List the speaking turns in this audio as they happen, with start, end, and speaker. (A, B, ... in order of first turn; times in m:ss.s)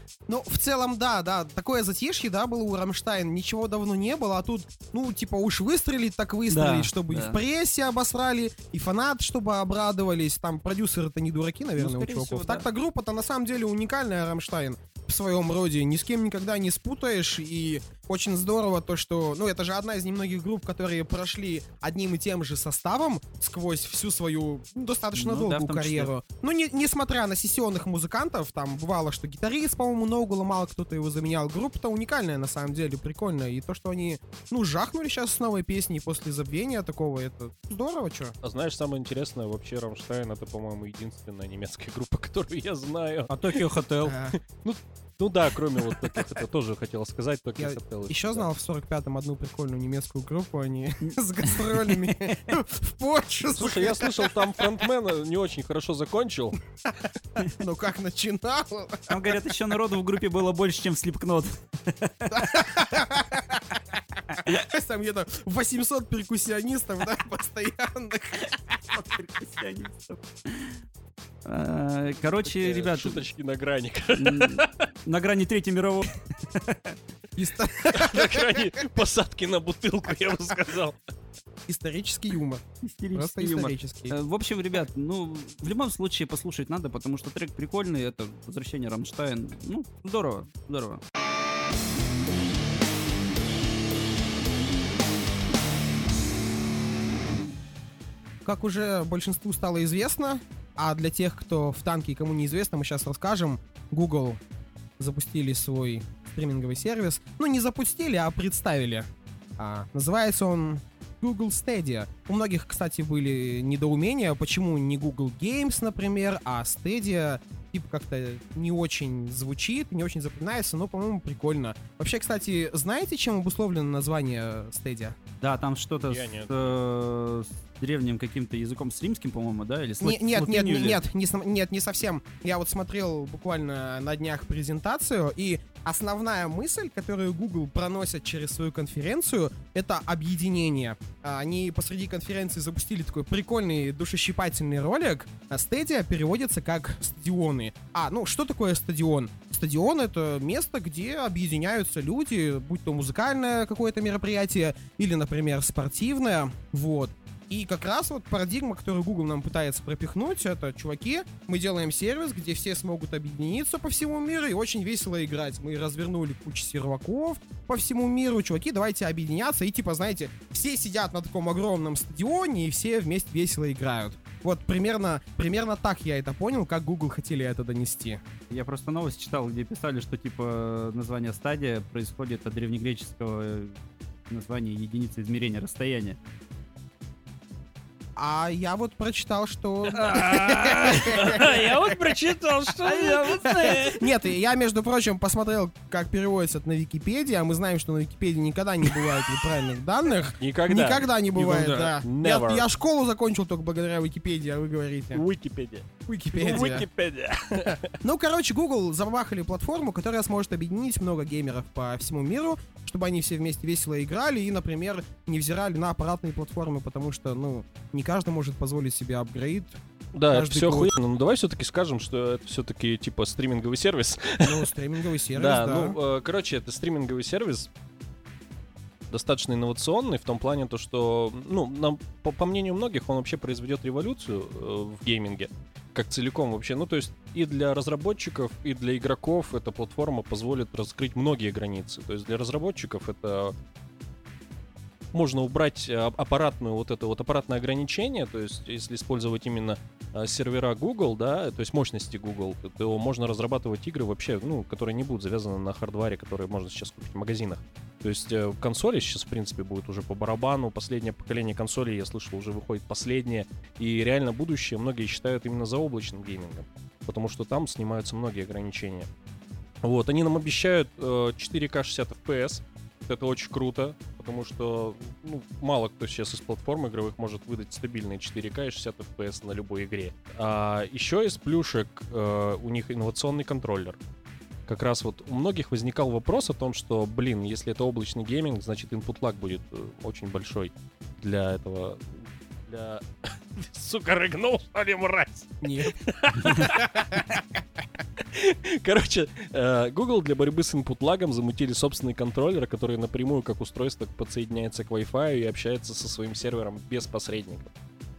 0:00.3-0:38.4 A
0:06.5-0:07.4 B
0:11.8-0:12.6 B
0:25.2-0:26.1 B
0:38.4-0:43.6 C
0:43.3-0:44.1 B
0:44.0-0:44.4 A
0:44.4-0:48.5 C
0:47.6-0:54.6 A
0:51.1-0:52.0 B
0:53.5-0:56.6 C
0:57.4-0:59.1 A
0:59.1-1:02.7 B
1:02.3-1:03.8 A
1:04.3-1:08.5 A
1:08.9-1:10.8 B
1:11.4-1:13.2 B
1:12.5-1:14.8 C
1:14.2-1:17.0 B
1:17.4-1:18.7 A
1:17.9-1:21.0 C
1:21.7-1:24.2 A
1:22.8-1:31.0 B
1:38.4-1:44.4 A
1:45.0-2:05.2 A
2:05.4-2:11.0 B
2:06.0-2:06.8 C
2:10.0-2:58.2 A
2:58.5-3:03.8 B
3:04.3-3:06.2 B
3:08.2-3:11.6 A
3:10.0-3:11.5 B
3:10.0-3:13.8 C
3:12.8-3:14.0 B
3:13.4-3:25.2 A
3:19.1-3:19.4 C
3:20.4-3:22.7 C
3:25.1-3:27.9 C
3:26.0-3:26.8 A
3:28.0-3:40.9 A
3:40.1-3:44.7 C
3:44.4-3:46.0 A
3:45.3-3:47.7 C
3:49.1-4:03.5 C
4:05.1-4:29.1 C
4:29.8-4:44.0 C
4:44.7-4:57.4 C
4:55.6-4:56.0 A
4:58.2-5:07.7 C